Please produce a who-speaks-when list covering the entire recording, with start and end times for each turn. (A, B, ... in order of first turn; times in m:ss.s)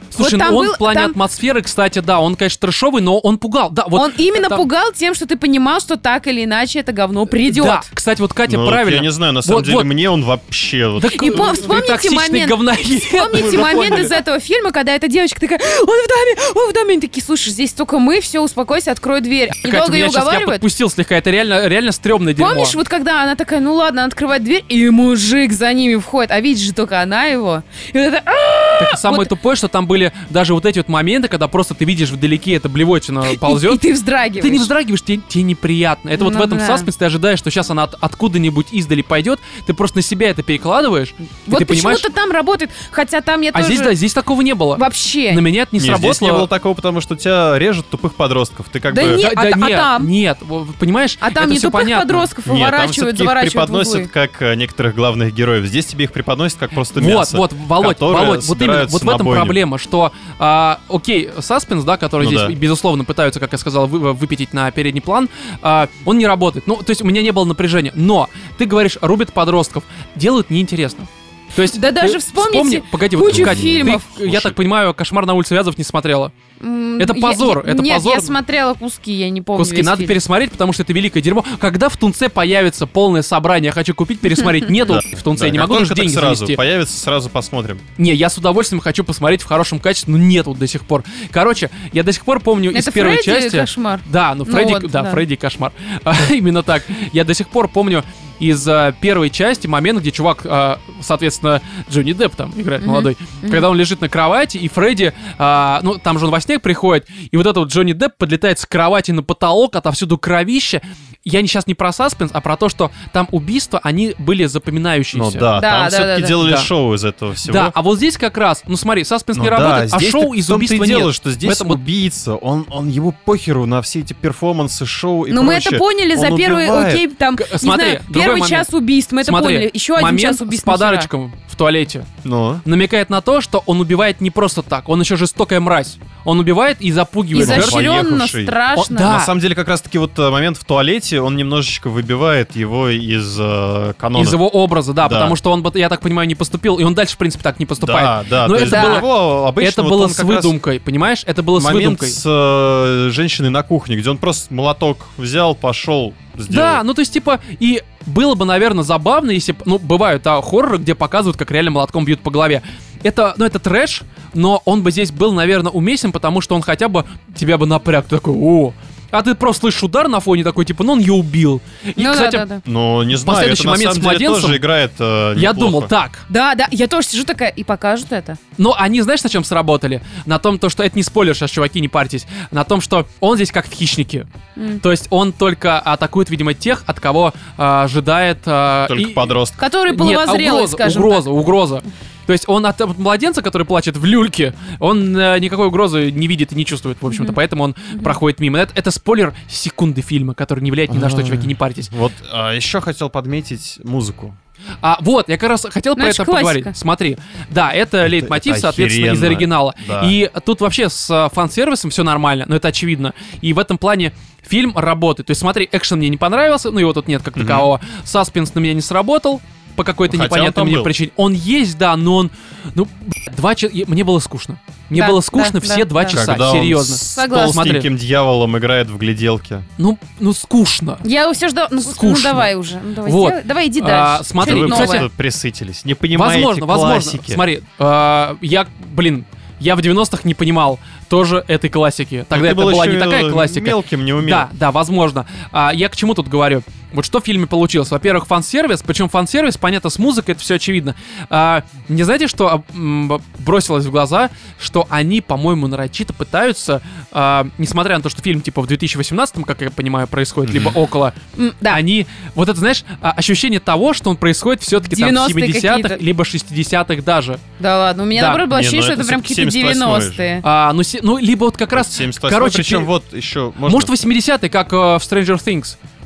0:00.1-0:04.7 A
0:00.2-0:01.2 B
0:03.9-0:07.9 B
0:07.4-0:09.9 A
0:08.4-0:11.7 C
0:11.0-0:14.2 A
0:11.1-0:20.6 B
0:13.5-0:14.0 C
0:19.6-0:22.8 A
0:22.4-0:29.3 B
0:28.8-0:33.8 A
0:33.3-0:34.7 B
0:34.4-0:42.1 A
0:36.2-0:36.9 B
0:41.5-0:43.9 B
0:43.5-0:46.5 A
0:44.8-0:45.4 B
0:45.8-0:49.2 C
0:48.9-0:50.1 B
0:49.0-0:52.3 A
0:51.2-0:54.1 B
0:52.4-0:59.6 C
0:56.9-1:16.3 A
1:02.2-1:02.6 C
1:11.6-1:14.1 B
1:13.2-1:14.6 C
1:16.6-1:20.2 B
1:17.0-1:18.3 A
1:19.6-1:26.6 A
1:24.8-1:27.8 C
1:28.0-1:55.5 A
1:32.7-1:35.2 B
1:42.8-1:43.6 B
1:55.1-1:57.7 C
1:55.6-1:56.4 B
1:56.4-1:56.7 A
1:57.4-2:01.8 A
1:59.3-2:07.0 C
2:05.3-2:11.1 B
2:07.4-2:08.7 A
2:09.2-2:12.1 A
2:12.2-2:12.6 C
2:12.6-2:17.9 A
2:17.3-2:19.1 B
2:17.4-2:24.4 C
2:18.8-2:19.3 A
2:24.1-2:32.2 A
2:25.0-2:25.4 C
2:27.8-2:30.6 C
2:28.6-2:29.0 B
2:31.6-2:36.8 C
2:36.5-2:52.4 A
2:52.0-2:52.6 B
2:52.6-2:55.9 C
2:53.2-2:54.6 A
2:55.4-2:56.2 A
2:56.3-2:58.4 B
2:58.6-3:04.3 A
3:04.6-3:04.8 B
3:04.8-3:09.4 A
3:08.9-3:09.6 C
3:09.6-3:11.2 B
3:09.9-3:21.9 A
3:17.1-3:17.4 B
3:20.9-3:24.4 C
3:24.8-3:47.9 A
3:26.0-3:26.7 B
3:28.0-3:30.2 C
3:37.4-3:37.7 C
3:40.1-3:40.9 C
3:44.9-3:46.2 B
3:46.1-3:49.6 C
3:47.1-3:47.6 B
3:49.8-3:51.0 A
3:51.0-3:55.0 B
3:51.8-3:52.5 A
3:53.0-3:55.1 A
3:54.4-3:57.4 C
3:56.1-4:21.2 A
4:02.3-4:04.5 C
4:20.4-4:20.8 C
4:21.4-4:21.8 B
4:21.7-4:27.4 A
4:24.8-4:26.0 B
4:27.6-4:30.4 B
4:28.1-4:28.4 A
4:28.5-4:30.2 C
4:30.4-4:32.9 A
4:31.7-4:33.9 C
4:33.6-4:35.8 A